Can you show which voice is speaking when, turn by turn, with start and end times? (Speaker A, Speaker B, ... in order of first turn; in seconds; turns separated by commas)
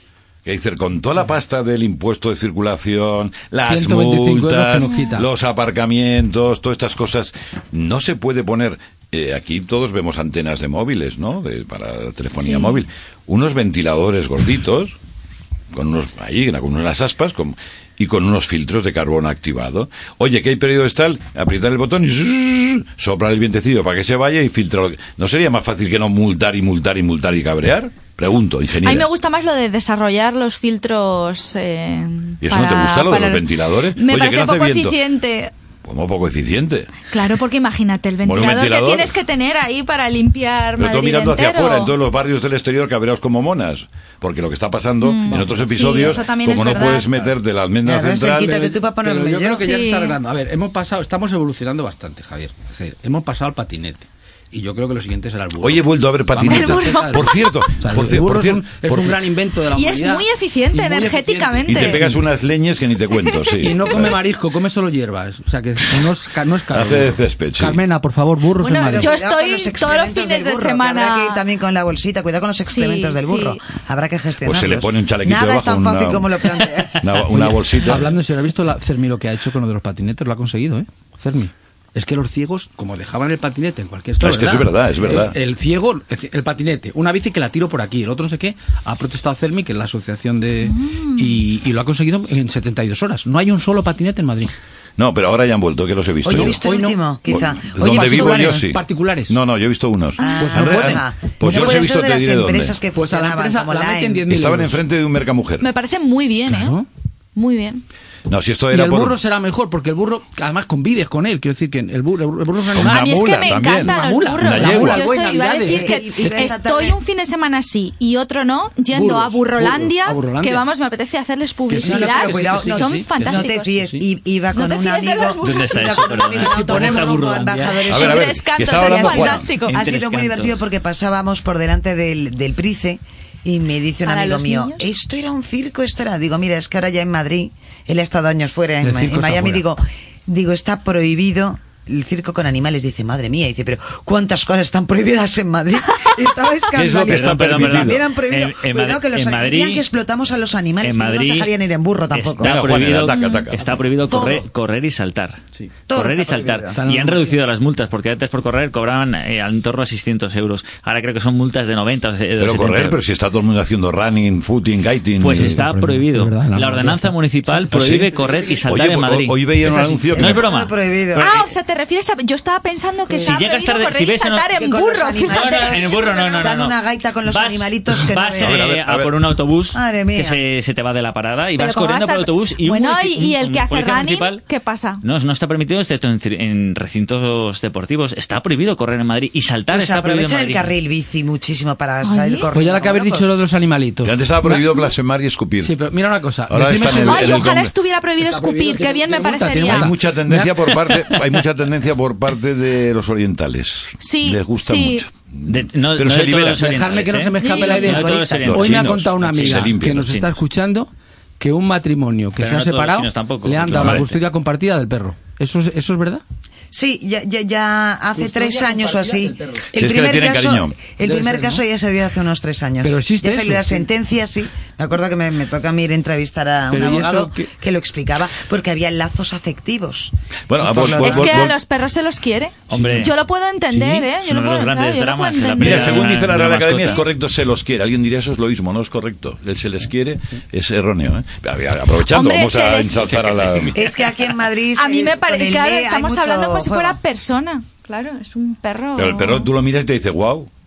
Speaker A: 0.4-14.9, Speaker B: 3.7-5.3, Speaker C: 4.8-5.2, Speaker C: 12.4-12.8, Speaker A: 15.7-29.1, Speaker C: 28.8-35.5, Speaker A: 32.4-35.0, Speaker A: 35.8-36.9, Speaker C: 37.1-41.9, Speaker A: 38.2-39.1, Speaker A: 40.8-48.5, Speaker C: 45.0-47.2, Speaker D: 47.8-49.7, Speaker B: 48.3-62.2, Speaker C: 49.6-50.2, Speaker A: 55.6-59.2, Speaker C: 56.5-57.5, Speaker C: 59.7-62.0, Speaker A: 61.7-64.2, Speaker C: 63.2-63.5, Speaker B: 63.6-69.1, Speaker A: 66.7-67.8, Speaker C: 68.6-71.4, Speaker D: 68.7-77.3, Speaker C: 72.7-73.6, Speaker A: 74.4-76.4, Speaker A: 77.0-78.1, Speaker B: 77.3-94.5, Speaker A: 84.2-85.3, Speaker C: 90.6-91.4, Speaker A: 95.0-96.6, Speaker D: 96.2-98.7, Speaker B: 96.3-99.4, Speaker A: 97.3-102.8, Speaker D: 100.2-104.2, Speaker B: 100.4-101.9, Speaker B: 102.9-104.8, Speaker A: 104.3-105.7, Speaker C: 105.6-106.8, Speaker B: 106.5-106.8, Speaker C: 107.3-107.8, Speaker A: 108.3-109.2, Speaker B: 108.7-116.5, Speaker A: 112.7-115.0, Speaker C: 112.7-123.7, Speaker D: 115.6-117.0, Speaker B: 118.9-120.7, Speaker B: 121.7-124.0, Speaker D: 121.8-152.5, Speaker C: 124.5-127.1, Speaker E: 125.4-127.6, Speaker B: 126.6-127.8, Speaker A: 127.9-129.5, Speaker C: 127.9-129.7, Speaker E: 129.7-130.6, Speaker C: 134.0-134.9, Speaker B: 138.8-139.6, Speaker A: 146.8-148.1, Speaker E: 147.1-149.8, Speaker E: 150.8-151.5, Speaker E: 152.1-163.0, Speaker A: 152.4-153.8, Speaker C: 153.1-153.5, Speaker D: 154.1-154.5, Speaker D: 155.9-156.8, Speaker B: 156.8-157.3, Speaker A: 162.4-165.6, Speaker E: 165.2-171.5, Speaker B: 165.3-168.6, Speaker A: 167.7-168.0, Speaker A: 168.7-170.4, Speaker D: 170.2-171.4, Speaker C: 171.2-176.5, Speaker E: 173.2-174.5, Speaker D: 174.5-178.7, Speaker E: 175.2-184.4, Speaker A: 178.4-179.1, Speaker D: 179.7-180.4, Speaker C: 181.6-185.0, Speaker E: 185.0-190.7, Speaker D: 189.7-193.3, Speaker C: 192.0-192.5, Speaker B: 192.5-194.7, Speaker A: 194.0-195.8, Speaker B: 195.6-197.5, Speaker A: 196.5-197.7, Speaker C: 196.9-199.9, Speaker B: 198.2-201.0, Speaker A: 199.7-207.1, Speaker C: 204.0-205.0, Speaker E: 205.5-210.3, Speaker B: 206.6-216.2, Speaker C: 207.4-207.9, Speaker D: 207.7-208.6, Speaker A: 208.4-210.1, Speaker E: 212.4-214.1, Speaker A: 213.7-214.1, Speaker D: 216.7-231.5, Speaker B: 218.1-219.7, Speaker A: 219.8-220.8, Speaker B: 221.0-221.6, Speaker B: 222.8-223.9, Speaker B: 226.7-227.5, Speaker A: 230.5-231.6, Speaker C: 231.0-236.2, Speaker E: 232.7-233.1, Speaker B: 233.7-234.1, Speaker E: 234.2-237.0, Speaker A: 235.6-243.8, Speaker C: 242.1-243.2, Speaker E: 243.1-243.8, Speaker D: 243.7-247.0, Speaker C: 244.7-249.5, Speaker A: 248.9-250.5